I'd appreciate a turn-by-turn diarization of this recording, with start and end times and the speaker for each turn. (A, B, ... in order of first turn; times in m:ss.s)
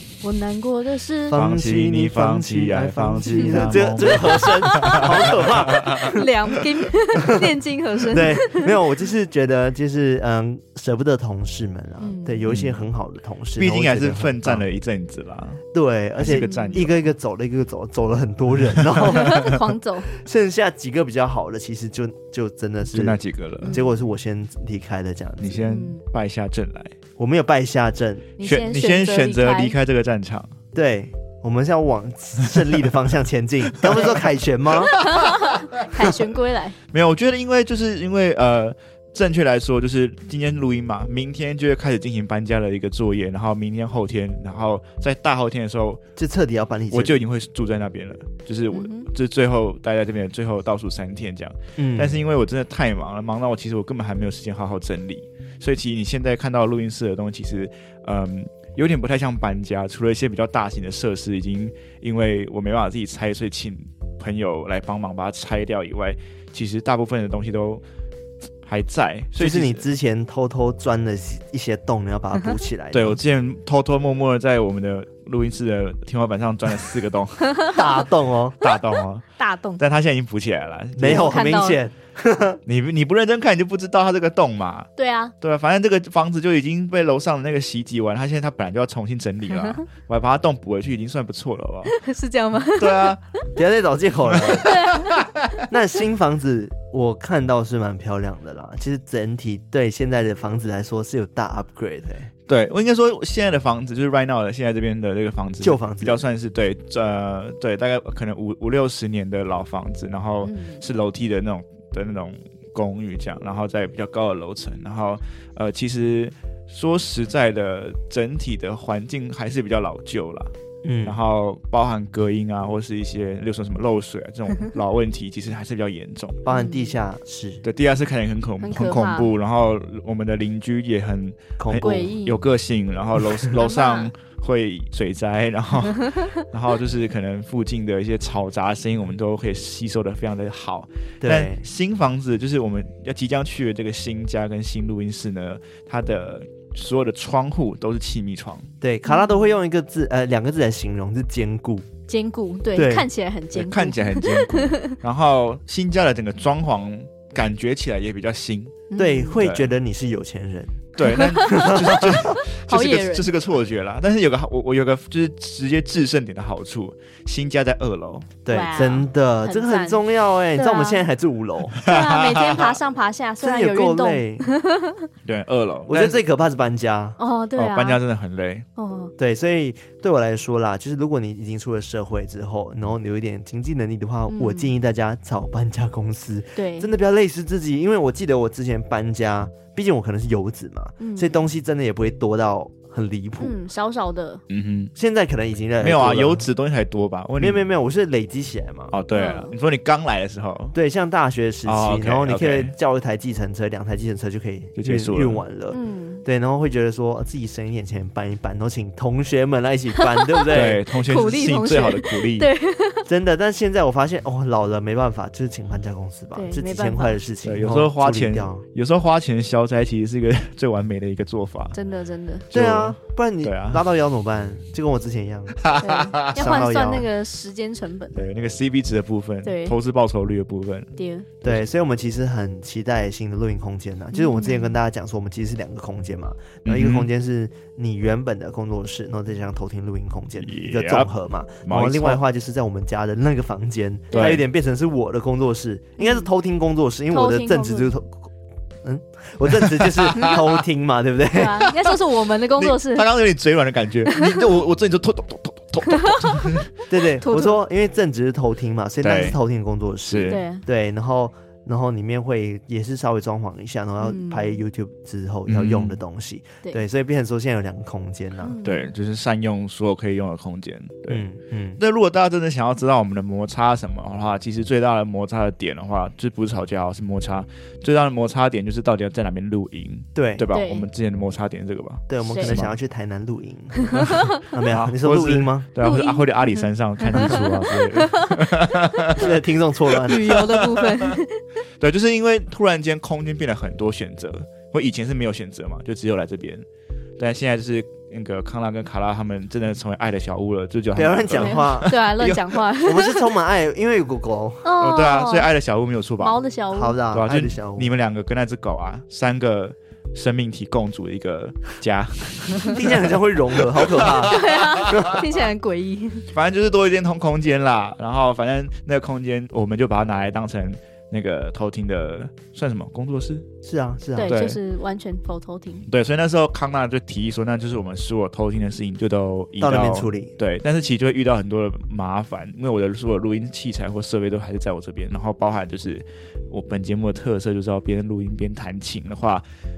0:00.2-0:01.4 A
0:01.3-0:06.2 B
0:01.3-0:06.1 C
0:03.2-0:05.1 A
0:06.0-0:08.7 A
0:07.2-0:07.4 B
0:08.0-0:14.6 B
0:12.0-0:12.5 A
0:12.5-0:12.8 C
0:13.6-0:15.6 C
0:15.7-0:19.6 B
0:16.2-0:16.9 C
0:16.2-0:17.1 A
0:19.0-0:20.1 A
0:19.1-0:19.3 C
0:20.1-0:25.6 B
0:22.9-0:23.7 C
0:23.6-0:23.9 A
0:25.4-0:27.0 C
0:25.6-0:26.0 A
0:27.2-0:28.3 B
0:28.4-0:29.8 A
0:28.4-0:30.5 C
0:30.7-0:35.0 B
0:34.9-0:36.8 A
0:36.9-0:46.0 C
0:46.2-0:47.2 B
0:46.9-1:07.8 C
0:48.7-0:49.1 A
0:51.8-0:52.2 B
1:08.6-1:09.8 C
1:09.3-1:13.2 B
1:12.9-1:17.8 C
1:17.4-1:17.8 A
1:17.7-1:18.6 B
1:18.6-1:19.2 C
1:19.4-1:19.8 A
1:19.8-1:21.5 C
1:21.0-1:22.6 B
1:21.0-1:21.8 A
1:22.6-1:24.9 C
1:25.0-1:25.3 A
1:25.4-1:32.0 C
1:31.9-1:33.2 A
1:32.7-1:33.2 C
1:33.5-1:34.7 B
1:34.3-1:35.2 C
1:34.6-1:35.3 A
1:35.7-1:42.3 B
1:42.5-2:00.5 C
1:45.6-1:46.2 B
1:50.4-1:50.8 A
2:00.8-2:01.2 B
2:01.0-2:06.4 C
2:06.4-2:07.6 B
2:06.5-2:07.0 A
2:07.6-2:28.7 C
2:08.6-2:09.3 A
2:11.6-2:12.0 B
2:11.8-2:12.4 A
2:13.6-2:14.1 A
2:21.2-2:21.6 B
2:28.8-2:31.9 B
2:29.0-2:29.4 A
2:32.1-2:34.9 A
2:32.7-2:33.1 B
2:33.5-2:38.9 C
2:38.9-2:39.4 A
2:39.0-2:40.9 B
2:39.4-2:39.7 C
2:41.0-2:48.3 C
2:41.0-2:43.3 A
2:41.5-2:42.2 B
2:48.4-2:51.8 B
2:48.5-2:51.0 A
2:51.8-2:52.8 C
2:51.8-2:55.0 A
2:53.4-2:54.5 B
2:55.2-2:56.2 C
2:55.9-2:57.2 B
2:57.2-2:58.0 A
2:57.6-2:58.7 C
2:58.8-2:59.1 A
2:59.2-3:13.5 B
3:04.3-3:04.7 A
3:06.6-3:06.9 A
3:11.0-3:11.4 A
3:13.4-3:14.4 A
3:14.5-3:14.9 C
3:14.9-3:16.4 B
3:15.8-3:17.6 C
3:17.4-3:18.9 B
3:18.9-3:20.7 C
3:19.1-3:19.5 A
3:20.7-3:30.8 B
3:21.6-3:22.7 C
3:24.8-3:25.4 C
3:25.7-3:26.2 A
3:30.0-3:33.1 A
3:30.5-3:32.5 C
3:33.0-3:38.6 B
3:36.3-3:37.2 A
3:37.4-3:41.8 C
3:41.7-3:42.5 A
3:42.5-3:43.8 C
3:42.5-3:45.6 B
3:45.6-3:46.2 C
3:45.8-3:48.2 A
3:46.2-3:47.1 B
3:48.1-3:51.6 C
3:49.4-3:49.8 A
3:51.0-3:51.3 A
3:51.4-4:08.3 B
3:54.1-3:54.8 A
3:56.6-3:57.1 C
4:00.4-4:01.1 C
4:01.6-4:02.2 C
4:04.1-4:04.4 C
4:06.0-4:06.3 A
4:07.1-4:07.9 A
4:08.8-4:11.7 B
4:09.6-4:10.4 C
4:11.3-4:13.1 A
4:12.6-4:16.7 C
4:14.1-4:14.3 A
4:15.9-4:16.5 A
4:16.9-4:28.6 B
4:17.2-4:17.6 A
4:19.0-4:19.4 C
4:20.0-4:20.4 C
4:20.3-4:20.6 A
4:24.0-4:24.6 A
4:25.5-4:26.0 C
4:28.4-4:28.9 A
4:28.6-4:31.2 C
4:31.1-4:31.8 B
4:31.8-4:42.8 C
4:40.1-4:40.4 B
4:40.5-4:40.9 A
4:42.1-4:45.7 B
4:42.2-4:42.6 A
4:43.8-4:44.4 A
4:44.0-4:49.3 C
4:45.8-4:49.1 A
4:49.2-4:50.4 B
4:50.0-4:51.4 A
4:50.1-4:51.1 C
4:51.8-4:56.6 C
4:57.2-5:02.4 C
5:00.9-5:01.9 B
5:01.4-5:03.3 A
5:02.8-5:04.6 B
5:04.6-5:05.5 A
5:04.8-5:06.4 C
5:06.2-5:07.0 A
5:06.7-5:07.9 B
5:07.1-5:15.1 C
5:12.7-5:15.2 B
5:14.2-5:16.3 A
5:16.3-5:23.4 C
5:23.6-5:24.4 B
5:24.2-5:25.9 A
5:24.2-5:24.6 C
5:25.9-5:39.4 C
5:29.6-5:30.3 B